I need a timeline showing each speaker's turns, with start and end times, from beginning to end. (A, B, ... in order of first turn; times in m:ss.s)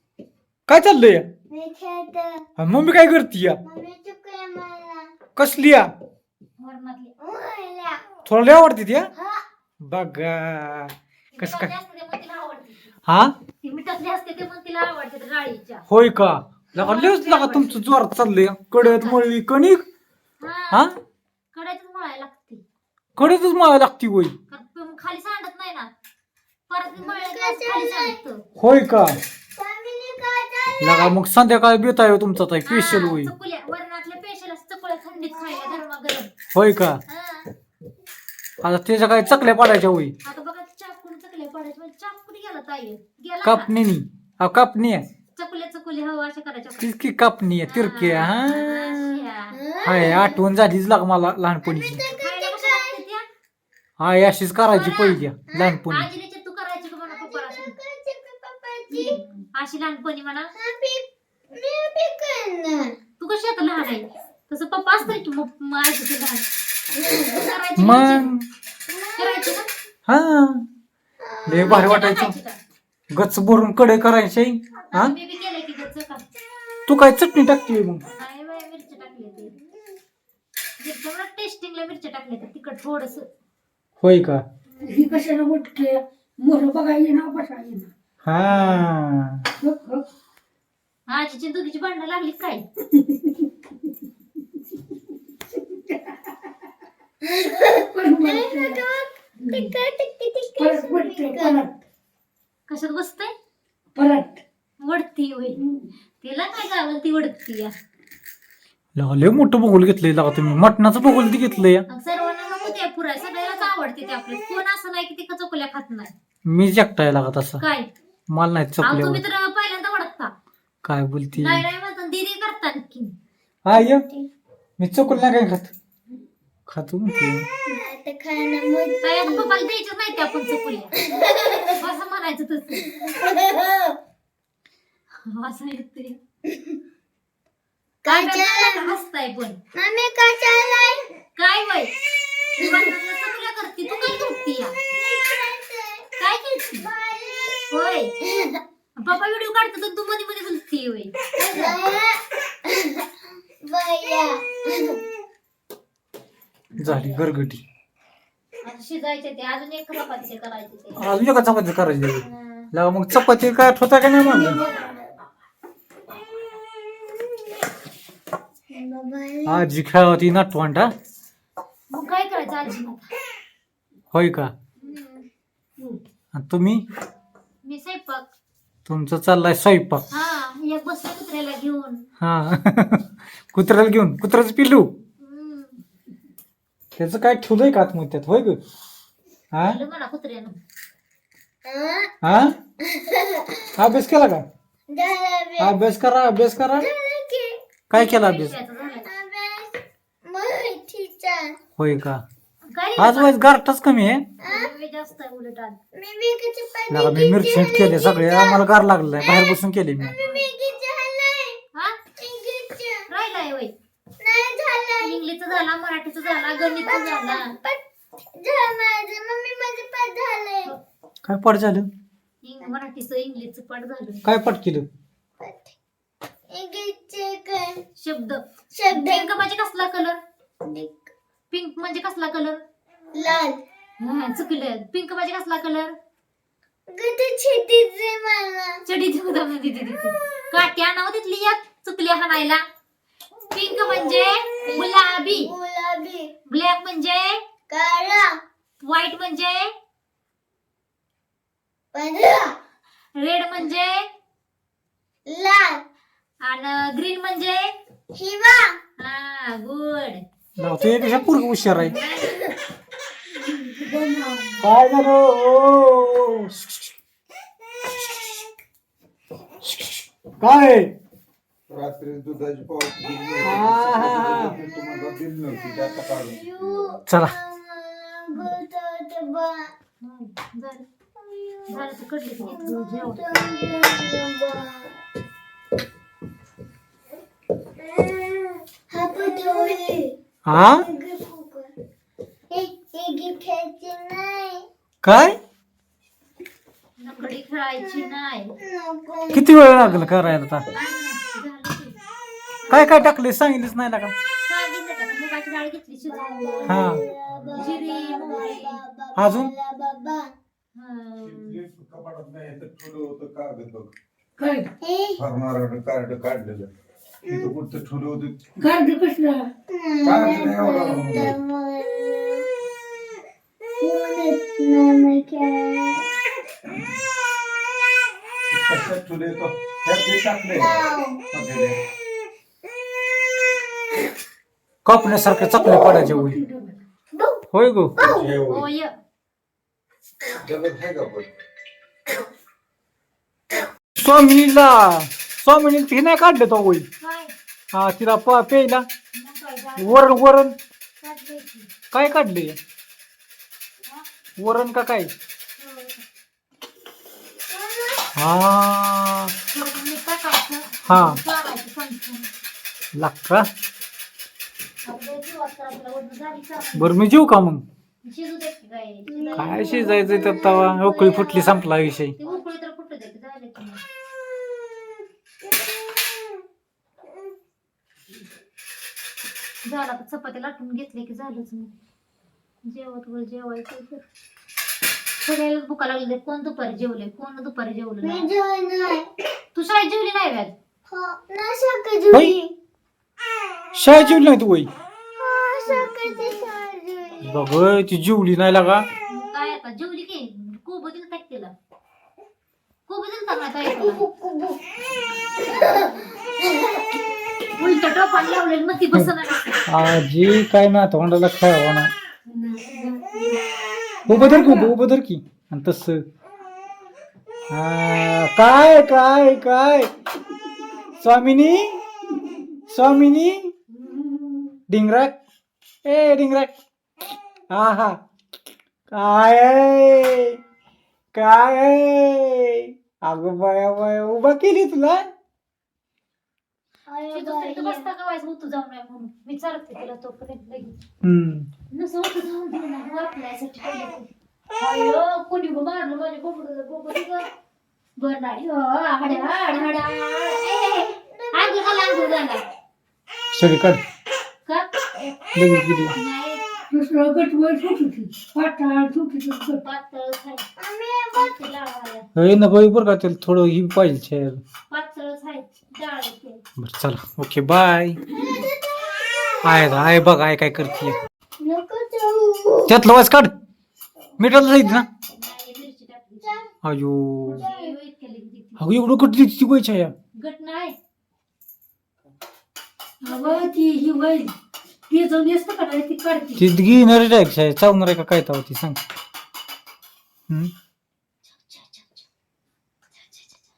0:00.7-0:01.2 A
0:01.5-0:02.4 B
0:02.6-0:03.6 A
0:03.6-0:05.1 B
0:05.4-0:05.9 A
0:06.6-0:07.1 C
0:07.2-0:08.1 B
0:08.2-0:09.1 A
0:09.8-0:11.7 A
0:11.3-0:12.9 C
0:13.1-0:13.3 A
0:13.6-0:15.8 C
0:15.9-0:19.8 A
0:16.8-0:17.8 C
0:18.8-0:19.2 C
0:20.4-0:20.9 C
0:21.5-0:22.6 C
0:23.2-0:24.3 A
0:24.5-0:25.9 C
0:26.7-0:28.4 C
0:27.0-0:28.2 B
0:28.6-0:29.2 A
0:29.5-0:31.1 B
0:30.8-0:33.3 A
0:32.7-0:36.3 C
0:35.4-0:35.8 B
0:36.5-0:37.0 A
0:37.1-0:37.4 C
0:38.6-0:40.1 A
0:40.2-0:43.7 C
0:43.4-0:45.0 A
0:45.4-0:46.9 C
0:46.8-0:49.2 A
0:47.7-0:49.6 C
0:49.5-0:50.4 B
0:49.8-0:52.0 A
0:51.6-0:53.0 B
0:52.2-0:53.2 C
0:54.0-0:56.1 A
0:54.7-0:55.2 C
0:55.5-0:55.8 B
0:55.9-0:57.7 C
0:57.1-0:59.2 B
0:58.9-1:00.5 C
1:00.5-1:02.9 B
1:03.2-1:06.4 C
1:06.9-1:07.5 B
1:07.3-1:08.3 C
1:07.8-1:08.4 A
1:08.9-1:09.6 B
1:09.2-1:09.7 C
1:10.1-1:10.6 A
1:11.2-1:11.8 B
1:11.4-1:12.3 A
1:11.6-1:12.6 C
1:13.1-1:15.1 A
1:14.9-1:16.2 C
1:16.9-1:18.0 A
1:18.2-1:19.5 C
1:20.8-1:23.2 C
1:24.0-1:24.4 A
1:24.8-1:27.9 D
1:28.2-1:29.4 A
1:29.6-1:30.0 D
1:31.1-1:32.6 C
1:32.9-1:33.5 D
1:35.6-1:36.1 D
1:37.2-1:41.6 B
1:37.9-1:38.8 D
1:40.6-1:41.7 D
1:42.7-1:43.3 C
1:44.0-1:44.4 D
1:44.8-1:45.6 C
1:45.5-1:45.9 D
1:46.2-1:47.7 C
1:48.9-1:51.8 A
1:51.9-1:56.1 C
1:56.4-1:57.6 A
1:57.6-1:57.9 C
1:58.3-1:59.2 A
1:58.8-2:00.3 C
2:00.8-2:01.6 A
2:01.3-2:03.1 C
2:03.6-2:04.0 A
2:03.7-2:04.3 B
2:04.8-2:05.7 A
2:06.7-2:07.4 A
2:07.7-2:09.6 B
2:09.0-2:10.9 C
2:11.0-2:11.7 B
2:11.7-2:12.9 C
2:12.8-2:14.0 B
2:15.2-2:16.2 C
2:18.0-2:19.0 B
2:18.0-2:19.6 C
2:19.7-2:21.1 B
2:21.4-2:21.9 C
2:22.6-2:24.7 C
2:23.8-2:26.1 B
2:26.2-2:26.8 C
2:26.7-2:27.6 B
2:27.7-2:28.1 C
2:28.2-2:28.6 B
2:29.0-2:31.8 C
2:31.5-2:33.0 B
2:33.6-2:35.0 B
2:36.8-2:37.2 C
2:36.8-2:37.6 A
2:38.6-2:41.1 C
2:41.0-2:44.6 A
2:42.2-2:42.7 C
2:44.2-2:45.2 B
2:46.5-2:47.4 B
2:48.7-2:49.6 B
2:49.4-2:50.9 A
2:51.9-2:53.1 C
2:54.1-2:54.5 A
2:54.8-2:55.2 B
2:56.3-2:56.8 A
2:57.6-2:58.3 C
2:58.9-3:00.0 A
3:00.1-3:02.1 C
3:02.2-3:04.9 A
3:05.2-3:05.8 C
3:07.0-3:08.6 A
3:09.5-3:09.8 A
3:09.6-3:10.6 C
3:11.6-3:12.1 B
3:12.2-3:12.6 A
3:12.8-3:13.7 B
3:13.8-3:14.4 A
3:14.9-3:15.8 B
3:15.6-3:16.9 A
3:16.8-3:17.5 B
3:17.9-3:18.6 A
3:17.9-3:19.1 C
3:18.8-3:21.6 B
3:21.8-3:22.2 A
3:22.7-3:23.4 C
3:23.0-3:24.2 A
3:24.4-3:24.7 B
3:24.4-3:25.8 C
3:25.9-3:31.6 B
3:26.9-3:30.1 A
3:30.2-3:30.5 C
3:32.2-3:33.0 B
3:33.1-3:33.7 C
3:34.2-3:35.2 B
3:35.0-3:37.5 C
3:36.8-3:40.7 B
3:41.2-3:41.9 A
3:42.4-3:44.2 C
3:44.2-3:44.9 A
3:45.4-3:45.7 B
3:46.5-3:47.8 B
3:48.0-3:50.2 C
3:48.7-3:49.4 B
3:50.6-3:51.1 B
3:51.5-3:52.6 C
3:53.1-3:53.6 B
3:54.0-3:55.9 C
3:56.9-3:58.8 B
3:58.8-4:02.6 C
4:03.5-4:05.5 C
4:03.7-4:06.3 B
4:06.5-4:07.4 C
4:07.7-4:08.3 B
4:08.8-4:09.7 C
4:11.9-4:12.6 B
4:13.2-4:14.0 C
4:15.2-4:15.8 B
4:16.4-4:17.7 C
4:18.1-4:18.8 B
4:19.0-4:20.2 C
4:20.6-4:21.9 A
4:20.8-4:21.2 B
4:21.8-4:22.4 C
4:22.3-4:22.5 B
4:23.4-4:24.6 D
4:24.6-4:26.9 A
4:29.6-4:30.9 A
4:31.7-4:36.9 E
4:33.4-4:34.6 A
4:35.5-4:39.7 B
4:37.1-4:37.3 A
4:40.0-4:40.8 C
4:41.2-4:41.9 B
4:41.7-4:43.2 C
4:42.4-4:45.0 B
4:47.8-4:50.1 B
4:50.4-4:50.8 A
4:50.7-4:51.7 B
4:52.5-4:54.6 B
4:55.0-4:55.4 A
4:57.0-4:58.5 C
4:57.8-5:00.0 B
4:59.3-5:00.6 A
5:00.7-5:02.0 C
5:02.6-5:03.1 C
5:02.7-5:04.1 A
5:04.5-5:07.0 C
5:06.1-5:10.3 B
5:06.6-5:07.0 A
5:07.4-5:07.7 E
5:07.6-5:08.8 C
5:09.2-5:09.5 A
5:10.7-5:11.6 C
5:11.3-5:13.9 E
5:14.4-5:14.7 D
5:14.8-5:15.2 B
5:15.2-5:16.7 E
5:17.3-5:17.5 B
5:17.3-5:18.4 E
5:18.6-5:19.5 D
5:19.7-5:22.4 B
5:20.0-5:21.3 E
5:23.8-5:26.0 B
5:28.5-5:31.8 E
5:30.5-5:31.3 B
5:34.8-5:36.4 A
5:35.7-5:36.8 D
5:37.5-5:38.0 A
5:38.0-5:38.4 B
5:38.0-5:38.6 E
5:38.4-5:38.9 C
5:40.4-5:41.3 E
5:43.9-5:46.8 A
5:47.0-5:47.3 C
5:47.7-5:48.8 A
5:49.1-5:50.1 C
5:49.8-5:50.5 A
5:51.0-5:51.7 C
5:51.9-5:52.6 A
5:54.4-5:55.1 A
5:55.6-5:56.0 C
5:57.5-5:58.1 B
5:58.2-5:59.3 A
5:59.5-6:02.3 C
6:00.9-6:01.2 A
6:02.9-6:03.5 A
6:04.8-6:07.0 C
6:06.7-6:07.6 A
6:08.0-6:09.7 C
6:09.1-6:11.6 B
6:09.3-6:12.2 A
6:12.2-6:13.8 C
6:14.4-6:14.8 B
6:15.4-6:16.4 B
6:19.6-6:21.7 C
6:22.6-6:24.0 C
6:25.2-6:28.3 C
6:28.0-6:29.1 B
6:29.5-6:30.5 C
6:30.9-6:32.5 B
6:33.7-6:34.7 A
6:35.2-6:37.5 B
6:35.7-6:36.2 C
6:37.2-6:38.8 A
6:39.1-6:41.5 C
6:42.9-6:44.0 C
6:43.8-6:44.6 B
6:45.4-6:46.8 B
6:47.6-6:49.6 C
6:49.7-6:51.9 A
6:52.4-6:52.9 D
6:52.5-6:53.2 C
6:54.0-6:56.0 A
6:57.5-6:59.9 A
7:01.0-7:01.8 A
7:02.6-7:03.5 A
7:03.8-7:04.4 C
7:04.7-7:05.1 A
7:05.8-7:06.5 A
7:07.5-7:08.0 A
7:08.9-7:10.4 A
7:11.1-7:15.1 A
7:16.9-7:17.9 B
7:17.1-7:20.7 C
7:21.0-7:21.5 A
7:21.7-7:24.1 C
7:24.6-7:27.2 C
7:28.0-7:32.4 C
7:30.7-7:32.4 B
7:33.3-7:33.8 A
7:34.4-7:35.2 C
7:35.3-7:35.9 A
7:35.9-7:36.4 C
7:36.7-7:39.6 D
7:39.6-7:40.4 C
7:40.6-7:41.4 B
7:41.2-7:42.0 C
7:42.1-7:44.4 A
7:44.7-7:46.4 C
7:46.6-7:48.0 A
7:48.1-7:49.8 B
7:49.4-7:51.0 A
7:51.4-7:52.7 B
7:52.7-7:53.3 A
7:54.2-7:54.8 A
7:55.1-7:56.4 C
7:56.6-7:57.4 A
7:57.2-7:58.6 C
7:57.4-7:57.7 B
7:58.6-7:59.9 A
8:00.1-8:00.8 C
8:03.0-8:04.3 D
8:03.0-8:03.5 C
8:04.9-8:06.4 D
8:06.4-8:08.8 A
8:11.3-8:12.0 C
8:13.0-8:13.4 C